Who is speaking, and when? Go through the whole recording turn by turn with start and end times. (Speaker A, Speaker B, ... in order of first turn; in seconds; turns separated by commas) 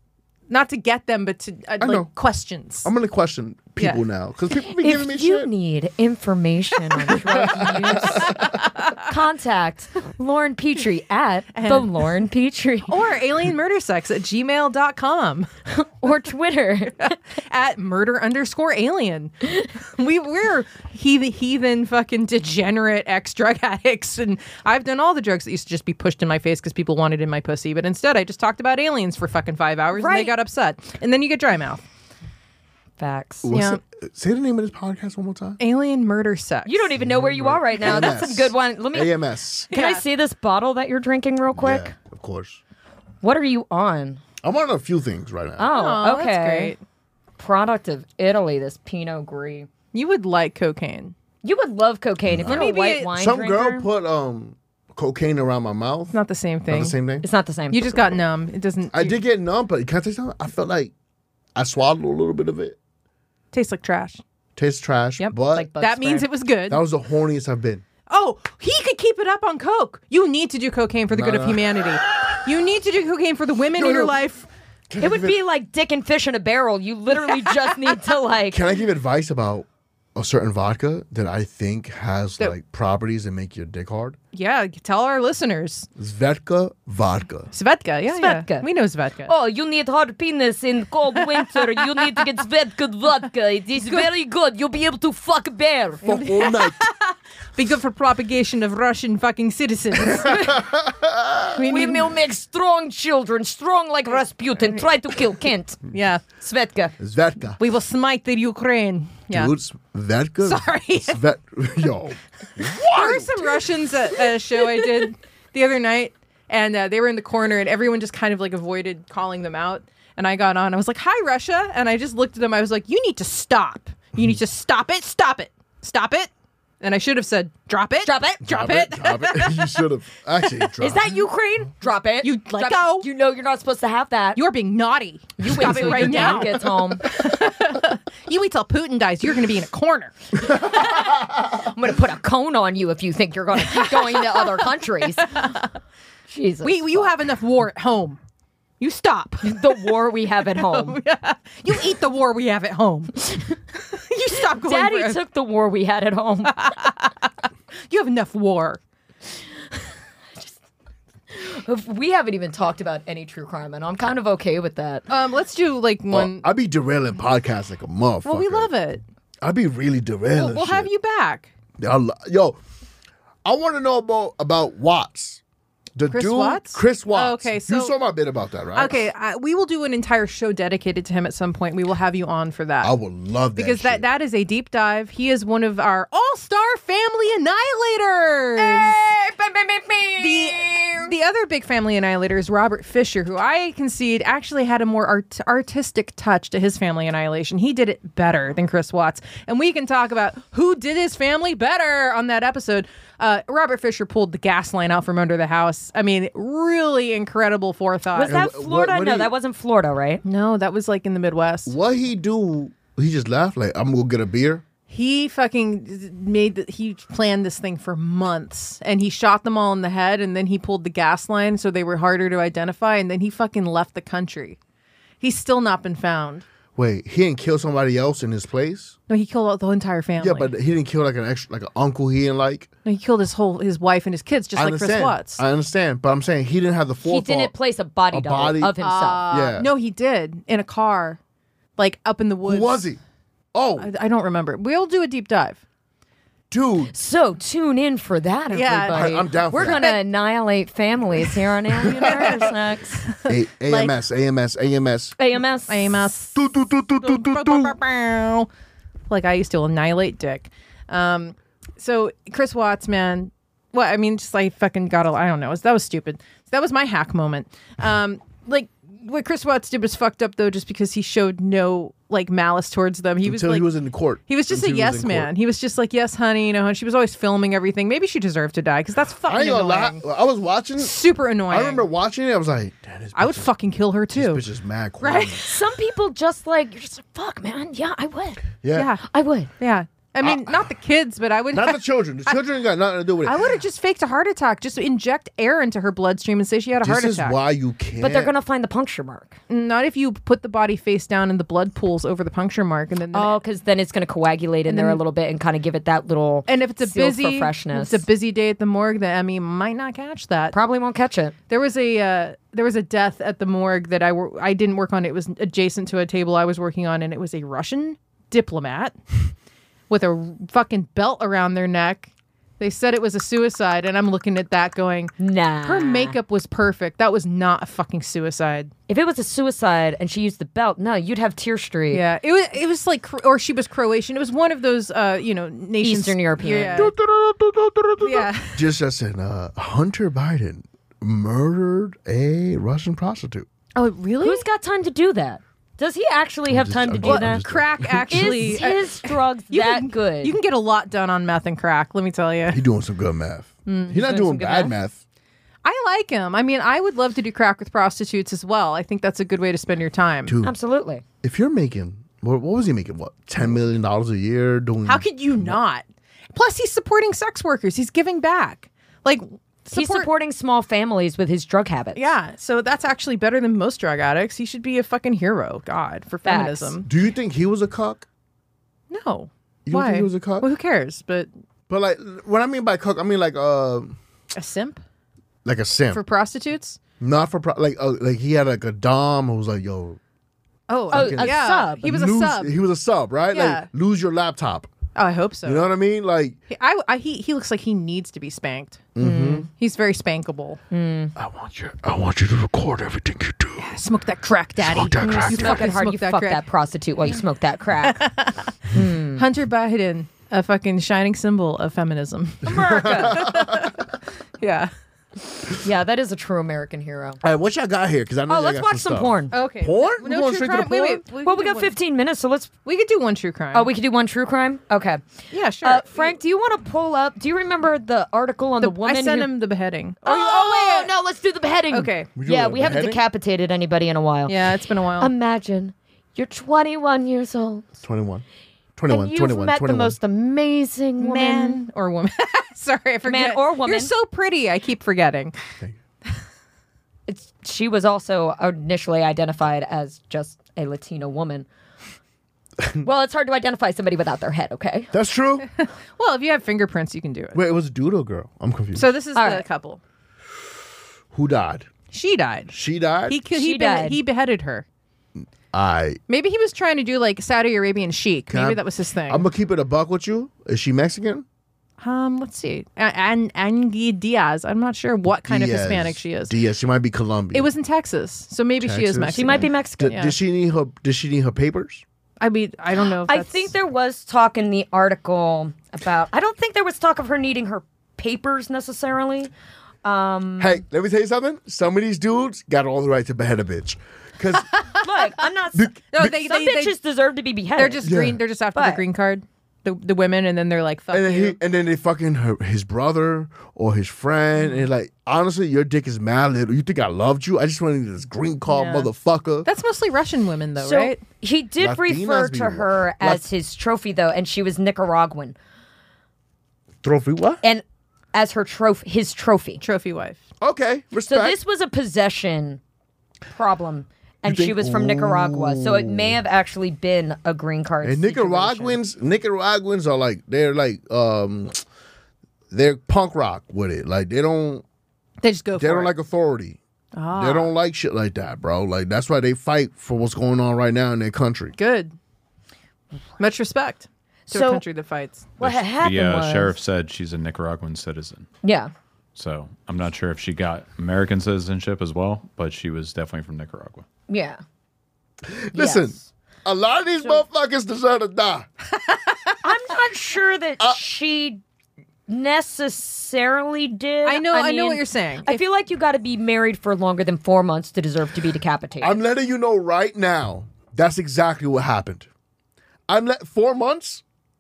Speaker A: 0.5-2.9, Speaker B: 1.8-2.1, Speaker B: 2.8-5.5, Speaker C: 4.7-13.0, Speaker B: 7.2-8.6, Speaker A: 8.1-8.9, Speaker A: 11.5-11.9, Speaker A: 12.9-15.5, Speaker C: 15.7-17.2, Speaker A: 17.0-31.8, Speaker C: 29.9-30.3, Speaker C: 33.0-33.5, Speaker B: 33.4-35.6, Speaker A: 33.5-33.8, Speaker A: 35.6-36.9, Speaker C: 36.7-39.1, Speaker B: 37.0-39.7, Speaker C: 39.7-41.9, Speaker A: 39.7-40.0, Speaker B: 41.5-42.6, Speaker C: 43.2-44.2, Speaker B: 44.4-45.7, Speaker C: 45.6-46.8, Speaker A: 45.7-46.8, Speaker C: 47.4-49.7, Speaker A: 49.9-51.1, Speaker C: 51.4-53.9, Speaker B: 52.3-56.2, Speaker A: 52.5-53.1, Speaker A: 56.1-57.0, Speaker B: 56.7-57.2, Speaker C: 57.2-58.2, Speaker A: 57.7-59.2, Speaker B: 58.9-60.9, Speaker B: 61.6-62.8, Speaker A: 63.5-64.2, Speaker B: 64.6-65.7, Speaker A: 65.2-66.8, Speaker C: 65.5-66.3, Speaker B: 66.7-67.8, Speaker A: 68.1-74.5, Speaker B: 71.1-72.4, Speaker B: 73.7-74.2, Speaker B: 74.9-75.4, Speaker C: 75.0-78.6, Speaker B: 78.5-84.2, Speaker A: 84.3-85.9, Speaker B: 86.0-87.5, Speaker A: 87.5-89.3, Speaker C: 88.1-88.7, Speaker C: 89.3-96.1, Speaker A: 91.2-92.2, Speaker A: 93.8-94.1, Speaker B: 96.0-96.8, Speaker A: 96.0-100.6, Speaker B: 100.0-101.6, Speaker A: 101.6-102.1, Speaker C: 101.6-105.8, Speaker A: 105.9-106.2, Speaker C: 106.4-106.9, Speaker B: 107.0-107.6, Speaker A: 107.6-109.5, Speaker B: 109.3-113.7, Speaker A: 110.4-111.2, Speaker A: 112.8-126.3, Speaker A: 126.8-129.8, Speaker C: 128.0-128.4, Speaker B: 128.4-131.1, Speaker C: 130.8-134.4, Speaker A: 132.2-133.1, Speaker A: 134.3-140.2, Speaker C: 135.4-137.1, Speaker B: 135.8-136.4, Speaker C: 140.5-145.5, Speaker B: 140.5-141.2, Speaker A: 143.6-145.7, Speaker C: 146.3-147.1, Speaker A: 146.6-148.2, Speaker A: 148.8-149.9, Speaker C: 149.4-151.0, Speaker A: 150.5-153.2, Speaker C: 153.2-153.5, Speaker A: 153.9-155.2, Speaker C: 154.6-156.7, Speaker A: 156.5-157.3, Speaker A: 157.9-158.8, Speaker C: 161.3-165.1, Speaker A: 165.1-166.5, Speaker B: 166.1-168.7, Speaker A: 168.2-169.0, Speaker B: 169.4-170.9, Speaker A: 170.3-171.5, Speaker B: 171.8-172.6, Speaker B: 173.4-175.4, Speaker B: 176.0-179.0, Speaker A: 176.1-177.9, Speaker A: 178.8-182.9, Speaker B: 182.8-184.0, Speaker A: 183.6-189.0, Speaker C: 188.6-191.1, Speaker A: 190.2-208.4, Speaker C: 208.1-210.2, Speaker B: 208.3-209.3, Speaker A: 210.2-211.8, Speaker B: 211.7-214.6, Speaker A: 214.9-224.6, Speaker A: 225.2-226.4, Speaker B: 226.8-229.0, Speaker A: 229.1-230.5, Speaker B: 230.2-232.7, Speaker A: 232.8-235.4, Speaker B: 234.6-237.5, Speaker C: 237.1-239.2, Speaker B: 238.1-238.8, Speaker A: 238.8-241.2, Speaker B: 239.3-239.7, Speaker A: 241.8-242.8, Speaker B: 242.4-243.0, Speaker B: 243.5-243.9, Speaker A: 243.8-245.6, Speaker B: 246.5-246.9, Speaker C: 246.9-253.1, Speaker A: 248.5-250.0, Speaker B: 248.9-249.8, Speaker A: 251.8-252.5, Speaker B: 251.9-252.4, Speaker A: 253.1-253.9, Speaker B: 253.3-255.2, Speaker C: 255.2-255.9, Speaker A: 255.7-256.5, Speaker B: 256.4-257.8, Speaker A: 257.0-258.5, Speaker A: 259.1-273.7, Speaker B: 273.2-275.3, Speaker A: 274.3-280.0, Speaker B: 279.3-280.9, Speaker A: 280.8-281.9, Speaker B: 281.5-283.5, Speaker A: 283.2-284.4, Speaker B: 284.1-285.4, Speaker A: 285.0-285.5, Speaker C: 285.4-288.4, Speaker B: 288.6-288.9, Speaker A: 288.7-289.0, Speaker C: 289.1-289.5, Speaker A: 289.6-292.4, Speaker B: 290.2-290.7, Speaker B: 291.5-293.5, Speaker A: 293.2-297.4, Speaker B: 296.8-298.3, Speaker C: 298.0-299.4, Speaker A: 299.5-303.4, Speaker C: 303.1-308.1, Speaker A: 304.7-305.0, Speaker A: 306.5-310.6, Speaker C: 310.5-311.4, Speaker A: 311.5-319.0, Speaker A: 319.9-328.7, Speaker C: 325.2-326.2, Speaker C: 328.9-332.0, Speaker A: 331.9-336.9, Speaker C: 335.8-336.9, Speaker B: 336.7-343.5, Speaker A: 338.0-338.6, Speaker A: 343.8-344.4, Speaker C: 344.2-347.4, Speaker B: 346.5-348.6, Speaker A: 347.0-352.6, Speaker C: 348.1-350.4, Speaker B: 352.5-355.0, Speaker A: 353.7-354.0, Speaker C: 354.0-354.7, Speaker A: 355.6-360.4, Speaker B: 360.3-360.5, Speaker C: 360.4-361.0, Speaker B: 361.2-365.6, Speaker A: 364.9-365.8, Speaker A: 366.3-370.1, Speaker C: 369.7-372.1, Speaker A: 371.9-376.9, Speaker C: 376.2-376.8, Speaker B: 376.9-378.1, Speaker A: 378.9-381.3, Speaker B: 379.7-380.5, Speaker B: 381.7-384.0, Speaker A: 384.3-384.8, Speaker B: 385.4-386.0, Speaker A: 385.9-386.8, Speaker B: 387.0-390.0, Speaker A: 390.7-392.6, Speaker B: 390.9-394.7, Speaker C: 390.9-391.9, Speaker A: 393.3-393.7, Speaker A: 394.9-395.7, Speaker B: 395.4-396.4, Speaker A: 396.5-398.9, Speaker B: 398.9-399.5, Speaker C: 399.0-399.5, Speaker A: 399.5-400.6, Speaker C: 400.7-401.1, Speaker B: 401.2-403.7, Speaker A: 403.6-406.4, Speaker B: 404.6-405.7, Speaker C: 405.0-408.0, Speaker A: 407.8-414.7, Speaker C: 408.7-409.2, Speaker C: 412.4-413.3, Speaker B: 412.5-413.9, Speaker C: 415.5-417.2, Speaker B: 417.2-421.0, Speaker C: 418.3-419.3, Speaker A: 419.3-421.7, Speaker C: 421.2-422.5, Speaker A: 422.6-423.7, Speaker C: 423.5-425.0, Speaker A: 425.3-426.2, Speaker C: 425.6-429.3, Speaker A: 428.6-430.9, Speaker C: 430.0-434.4, Speaker A: 431.7-432.1, Speaker B: 432.1-433.0, Speaker A: 434.3-435.1, Speaker C: 435.0-437.6, Speaker B: 437.8-438.2, Speaker B: 438.8-440.0, Speaker C: 438.9-441.6, Speaker A: 441.0-445.4, Speaker C: 443.1-443.9, Speaker C: 447.1-451.5, Speaker B: 452.6-452.9, Speaker C: 452.8-454.9, Speaker B: 454.9-455.5, Speaker A: 455.6-457.4, Speaker B: 457.3-458.9, Speaker A: 458.7-459.8, Speaker C: 459.1-459.4, Speaker B: 461.1-461.7, Speaker A: 461.9-462.5, Speaker B: 462.5-463.2, Speaker A: 463.1-464.6, Speaker C: 463.3-464.0, Speaker B: 465.2-466.0, Speaker A: 466.1-469.3, Speaker B: 468.3-471.2, Speaker A: 471.8-476.4, Speaker B: 475.2-477.5, Speaker A: 477.3-480.1, Speaker B: 478.6-481.8, Speaker C: 479.1-480.0, Speaker A: 482.2-483.5, Speaker C: 483.1-489.3, Speaker C: 489.8-490.6, Speaker B: 490.4-494.5, Speaker C: 494.8-497.9, Speaker B: 495.6-496.0, Speaker A: 495.9-496.7, Speaker A: 497.6-501.4, Speaker B: 497.8-498.2, Speaker C: 498.6-498.8, Speaker B: 500.9-509.5, Speaker A: 504.4-504.7, Speaker A: 508.5-508.9, Speaker A: 509.4-511.0, Speaker C: 510.6-515.4, Speaker B: 511.6-513.3, Speaker B: 516.8-517.4, Speaker C: 517.4-519.6, Speaker A: 519.6-520.2, Speaker B: 520.4-521.4, Speaker C: 521.1-522.6, Speaker C: 523.3-528.8, Speaker B: 524.2-526.2, Speaker B: 527.8-531.6, Speaker B: 532.5-534.6, Speaker A: 535.2-535.9, Speaker B: 535.6-536.6, Speaker A: 537.0-537.5, Speaker B: 537.1-541.6, Speaker A: 541.6-542.0, Speaker A: 543.2-545.3, Speaker C: 544.3-544.6, Speaker C: 545.4-546.5, Speaker D: 545.4-548.3, Speaker C: 548.4-548.7, Speaker D: 549.1-553.9, Speaker C: 554.1-554.4, Speaker B: 555.2-558.5, Speaker C: 555.5-556.0, Speaker A: 558.7-559.3, Speaker C: 559.4-561.4, Speaker C: 562.1-569.0, Speaker A: 564.1-565.4, Speaker B: 568.8-572.1, Speaker B: 572.9-574.0